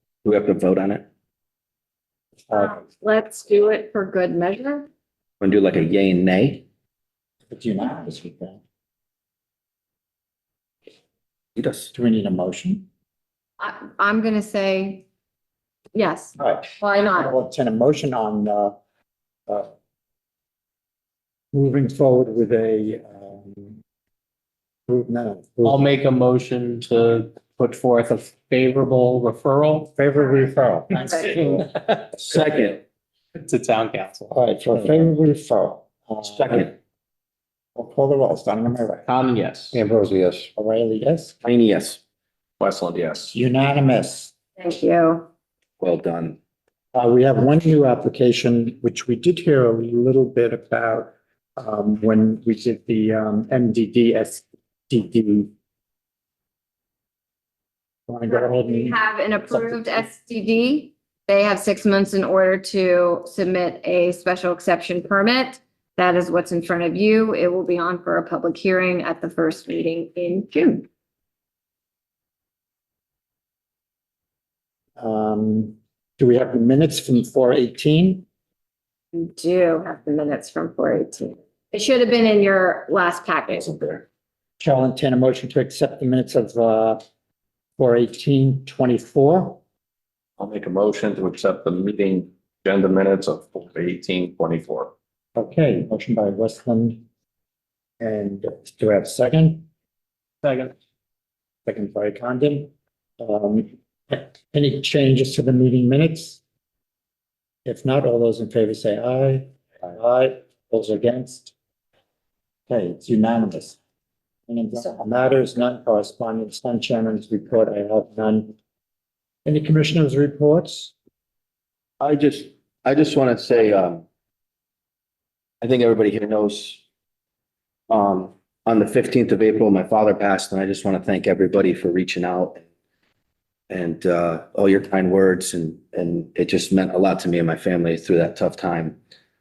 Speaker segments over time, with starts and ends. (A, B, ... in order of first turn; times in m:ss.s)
0:00.2-0:01.0 A
0:02.4-0:02.8 B
0:02.5-0:04.9 C
0:05.4-0:06.6 A
0:07.5-0:08.6 B
0:11.6-0:11.9 A
0:11.9-0:12.8 B
0:13.6-0:15.0 C
0:16.0-0:17.3 C
0:16.4-0:18.8 B
0:21.5-0:23.8 B
0:24.9-0:25.8 B
0:25.6-0:29.9 D
0:30.0-0:31.7 B
0:30.9-0:31.4 C
0:31.3-0:32.2 D
0:32.2-0:32.8 A
0:33.4-0:34.3 D
0:34.3-0:36.7 B
0:36.2-0:36.7 A
0:37.8-0:39.0 B
0:39.1-0:39.8 D
0:39.7-0:41.4 B
0:41.4-0:42.0 A
0:42.6-0:43.4 E
0:43.3-0:44.3 B
0:44.6-0:45.3 C
0:45.8-0:46.4 A
0:46.9-0:55.5 B
0:58.1-0:59.0 B
0:58.3-1:10.9 C
0:59.5-1:00.0 B
1:15.0-1:18.3 B
1:19.1-1:24.0 C
1:24.6-1:27.0 B
1:27.8-1:29.6 B
1:30.4-1:34.9 E
1:35.4-1:37.0 B
1:38.0-1:39.7 B
1:40.4-1:40.7 D
1:41.7-1:46.4 B
1:47.6-1:51.5 B
1:52.7-1:53.8 B
1:54.5-1:58.6 B
1:59.5-2:00.9 B
2:02.0-2:04.0 A
2:05.6-2:06.8 A
2:07.9-2:12.6 A
2:13.7-2:19.0 A